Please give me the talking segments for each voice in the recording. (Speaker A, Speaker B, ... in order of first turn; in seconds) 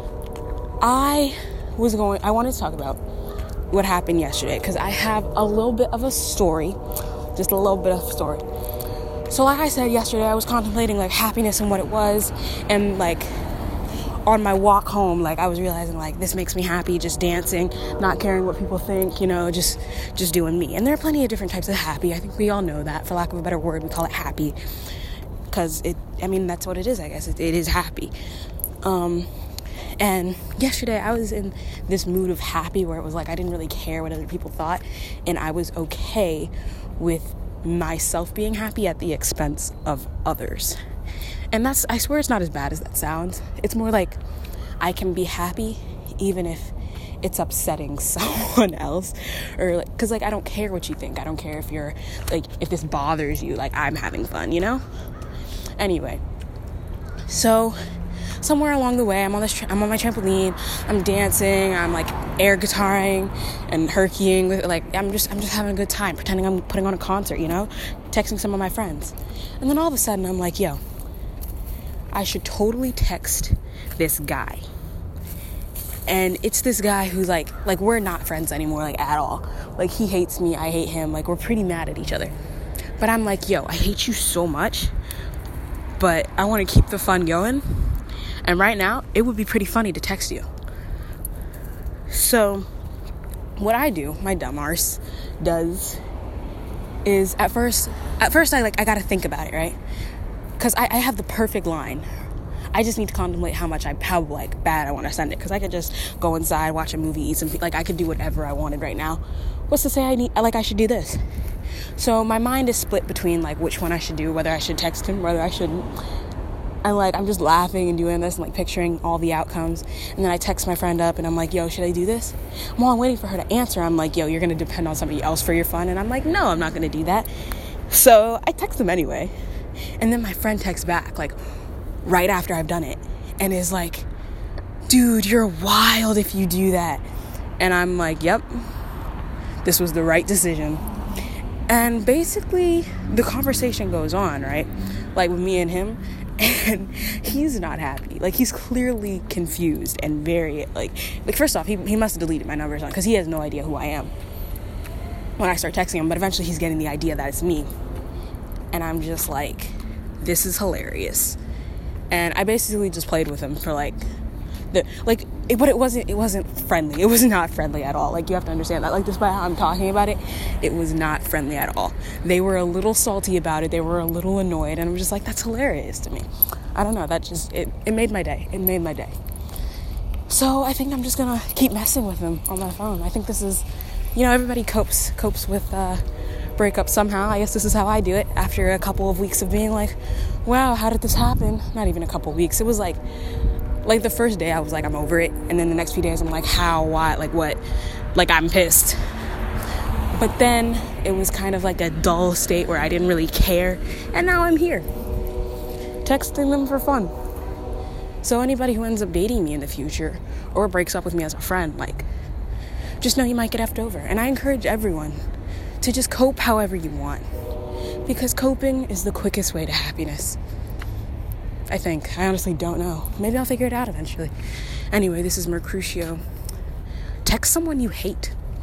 Speaker A: 0.8-3.0, 3.7-8.5, 9.3-13.5, 14.2-24.6, 25.5-28.1, 28.8-29.3, 30.0-40.8, 41.5-44.2, 44.8-54.8, 55.8-56.2, 57.3-57.8, 58.4-70.8, 72.1-74.7, 76.1-82.3, 83.0-84.9, 86.0-90.5, 92.1-92.7, 93.6-96.0, 97.0-99.8, 100.6-102.1, 102.7-111.3, 112.0-115.9, 116.8-127.3, 127.9-129.3, 130.0-131.4, 132.0-134.1, 134.9-137.1, 137.6-138.7, 139.6-140.8, 141.7-154.1, 155.4-157.7, 158.7-161.4, 162.1-164.1, 164.7-179.2, 180.3-186.0, 186.6-193.0, 193.8-197.6, 198.1-199.0, 200.1-204.9, 206.0-207.1, 208.2-212.1, 213.0-215.2, 215.8-217.3, 218.1-220.4, 221.7-224.3, 224.9-226.2, 227.2-228.4